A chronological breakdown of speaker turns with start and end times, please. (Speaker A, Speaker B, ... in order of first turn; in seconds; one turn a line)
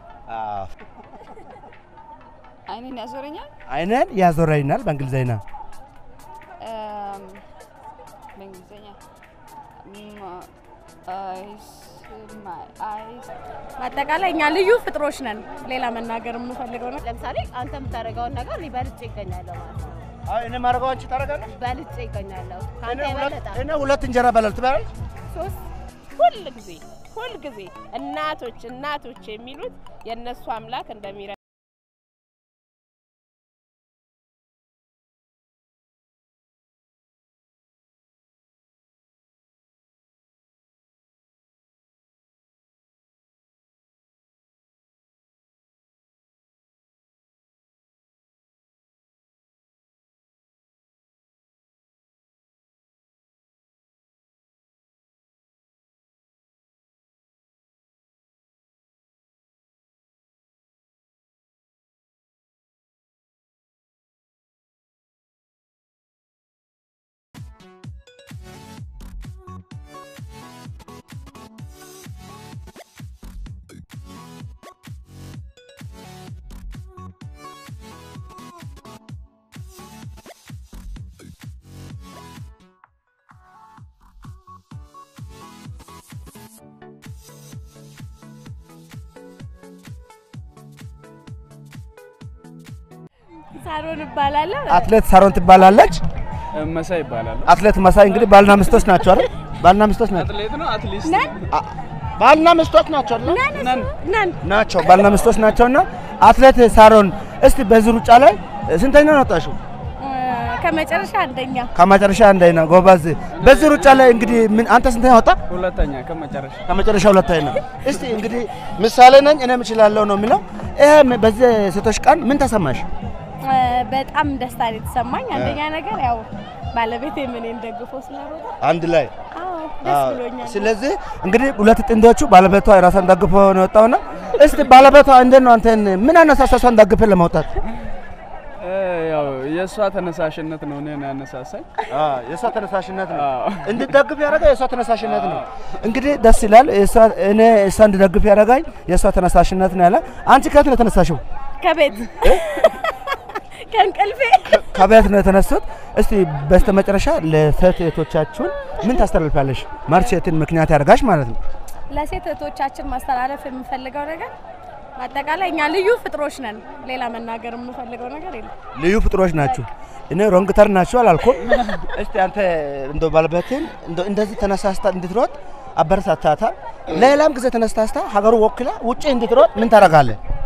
Speaker A: 0.3-0.8
Speaker B: 2.7-3.5
Speaker A: 3.7-5.4
Speaker B: 6.6-7.5
Speaker B: 8.4-9.0
Speaker B: 9.8-10.5
Speaker B: 11.1-13.3
Speaker C: 13.8-17.0
Speaker D: 17.0-20.1
Speaker A: 20.3-21.5
Speaker D: 21.6-23.6
Speaker A: 22.8-24.9
Speaker D: 25.3-25.6
Speaker E: 26.1-31.4
Speaker C: 93.6-94.6
Speaker A: 94.7-96.0
Speaker F: 96.5-97.5
Speaker A: 97.5-100.3
Speaker F: 100.1-101.5
Speaker A: 101.5-103.5
Speaker F: 103.5-103.9
Speaker C: 104.0-104.3
Speaker A: 104.4-109.6
Speaker F: 105.0-105.4
Speaker C: 110.0-111.7
Speaker A: 111.7-115.4
Speaker F: 113.3-114.7
Speaker F: 115.5-116.7
Speaker A: 116.7-122.9
Speaker C: 123.4-128.5
Speaker A: 125.3-125.7
Speaker A: 128.6-129.1
Speaker C: 129.4-130.6
Speaker A: 129.8-137.5
Speaker F: 138.6-141.8
Speaker A: 141.9-151.2
Speaker F: 143.1-143.9
Speaker F: 145.1-145.4
Speaker C: 151.6-153.2
Speaker C: 153.7-154.4
Speaker A: 154.4-161.4
Speaker C: 161.9-164.3
Speaker C: 165.0-168.5
Speaker A: 168.8-180.2